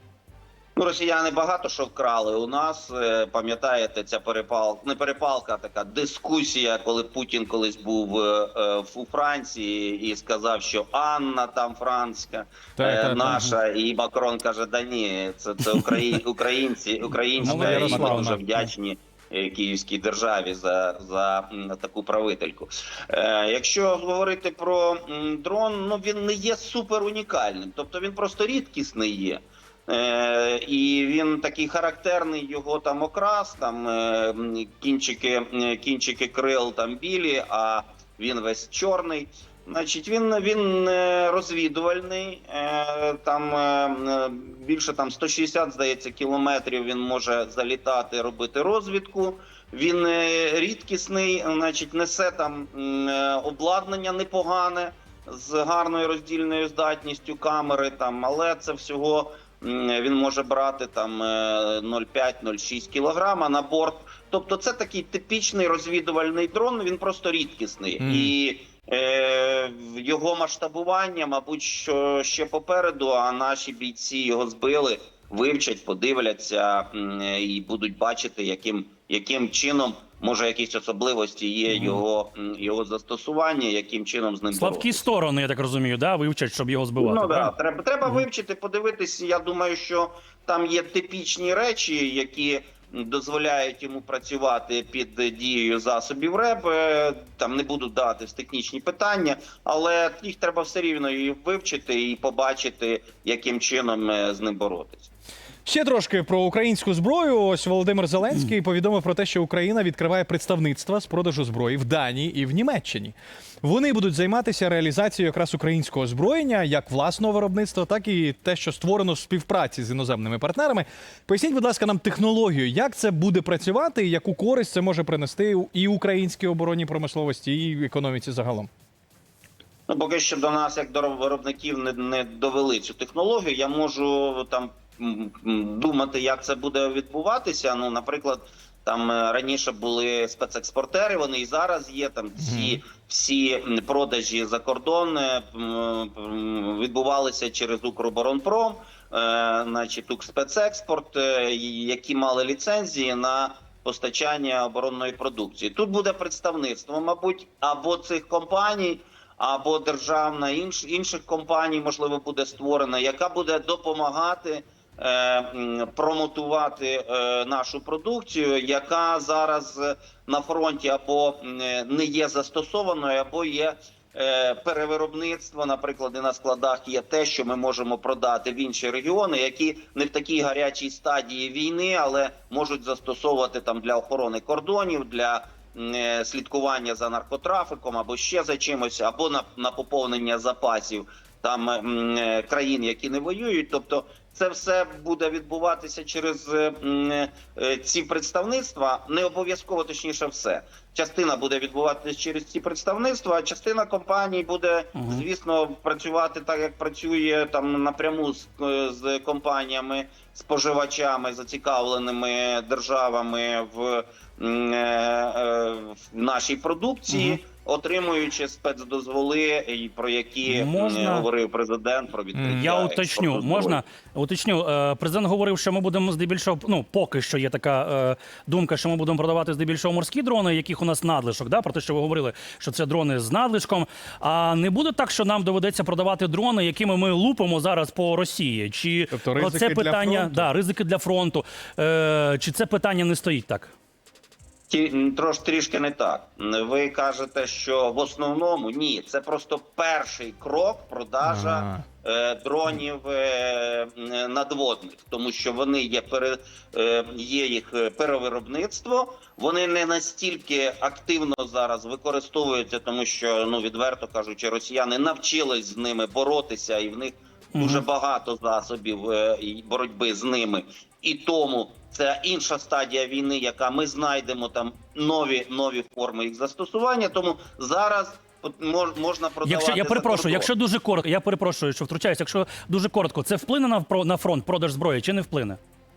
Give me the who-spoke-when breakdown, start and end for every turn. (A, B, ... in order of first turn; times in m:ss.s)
0:00.8-1:25.0 A
0:12.8-0:13.6 B
0:17.4-0:18.6 C
0:17.4-0:18.4 B
1:08.0-1:08.3 B
1:21.7-1:22.0 C
1:24.5-1:27.5 C
1:27.0-1:45.1 A
1:45.6-2:08.7 B
2:09.9-3:43.8 A
2:22.4-2:22.8 B
3:24.9-3:25.2 C
3:37.1-3:37.4 C
3:40.4-3:41.2 C
3:42.3-3:42.6 B
3:42.5-4:03.7 C
3:59.1-4:00.5 B
4:04.7-4:40.5 A
4:11.2-4:11.8 B
4:27.5-4:27.8 C
4:39.4-4:45.6 C